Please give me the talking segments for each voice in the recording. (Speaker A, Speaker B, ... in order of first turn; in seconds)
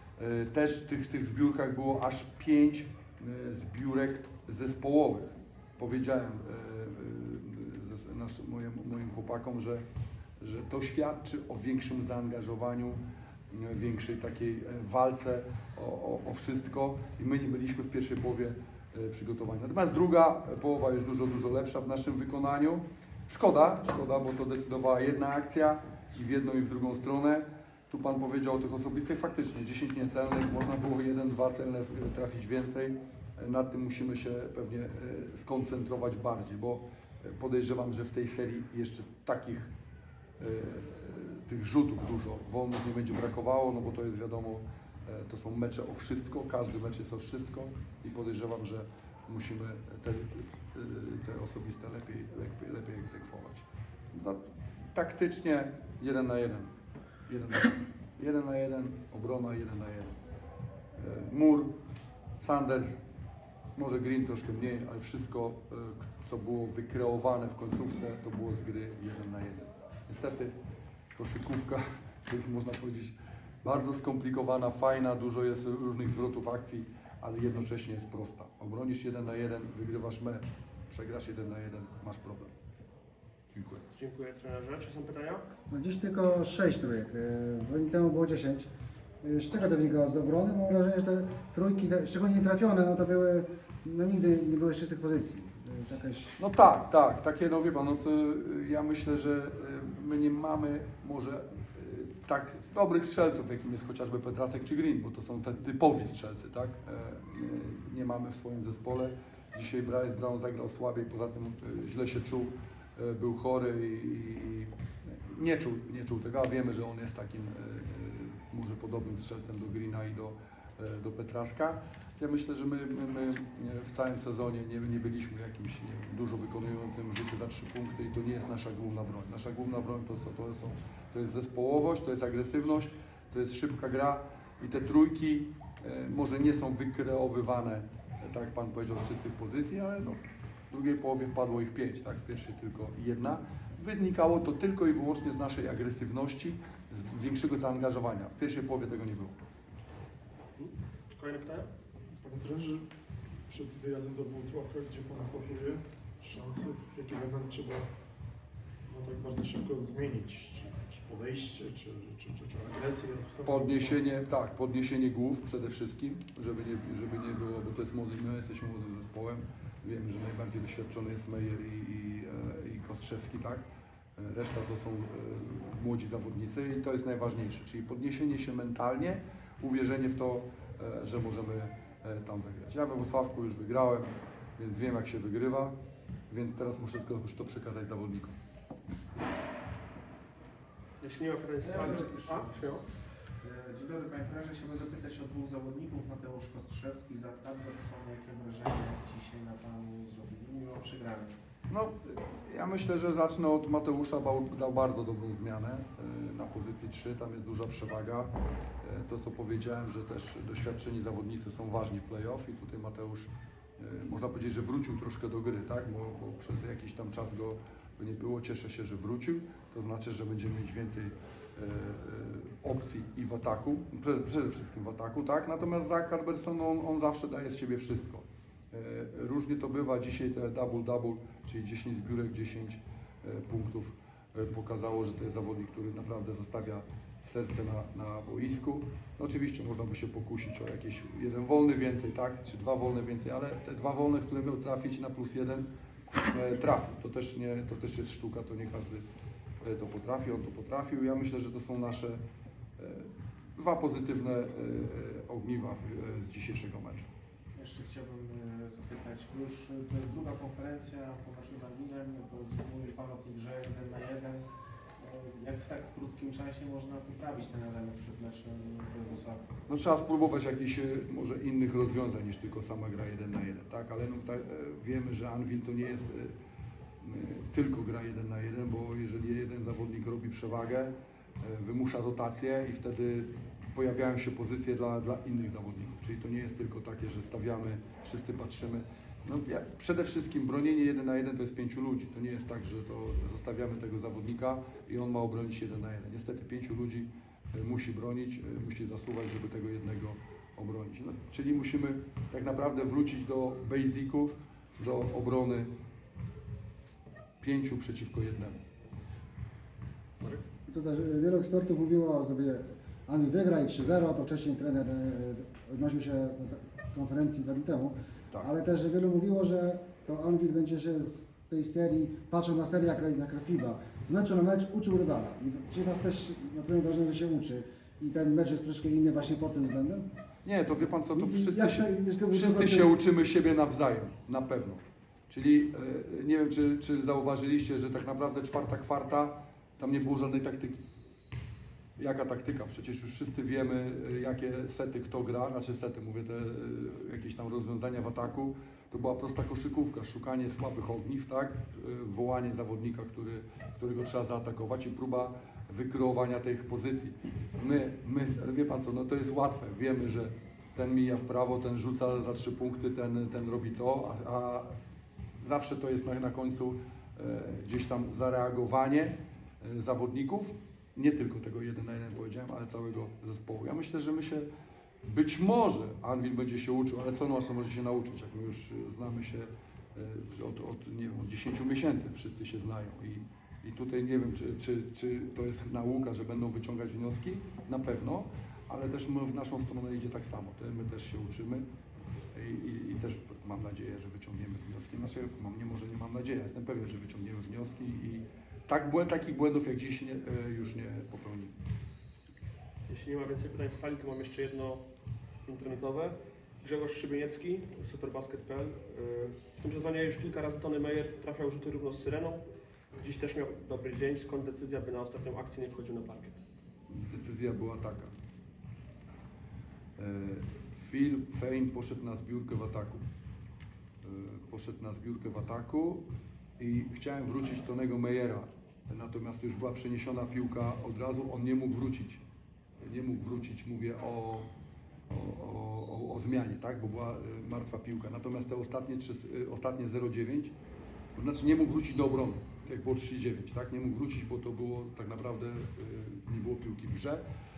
Speaker A: 0.2-9.8, 10.4-39.7, 40.4-56.7, 57.3-60.2, 61.0-61.7, 62.4-63.0, 63.8-70.6, 71.1-82.5, 83.5-83.8, 96.4-149.4, 163.4-185.7, 186.3-188.4, 201.7-245.7, 246.3-249.0, 249.6-252.2, 252.8-257.1, 269.7-276.4, 277.0-305.7, 307.4-308.6, 330.4-340.8, 342.0-364.8, 365.4-374.5, 375.0-391.6, 392.3-401.6, 416.9-418.1, 420.0-423.0, 424.0-426.1, 426.6-432.2, 432.8-434.5, 435.1-440.6, 441.1-447.2
Speaker B: 83.9-85.5, 150.6-151.7, 191.0-192.9, 402.9-404.9, 405.5-412.4, 413.0-416.4
Speaker C: 85.7-88.7, 89.2-96.4, 310.7-330.1, 331.1-332.9
Speaker D: 152.2-152.9, 153.5-157.9, 158.9-164.0
Speaker E: 191.6-192.5, 193.4-201.3, 257.6-264.5, 265.0-269.4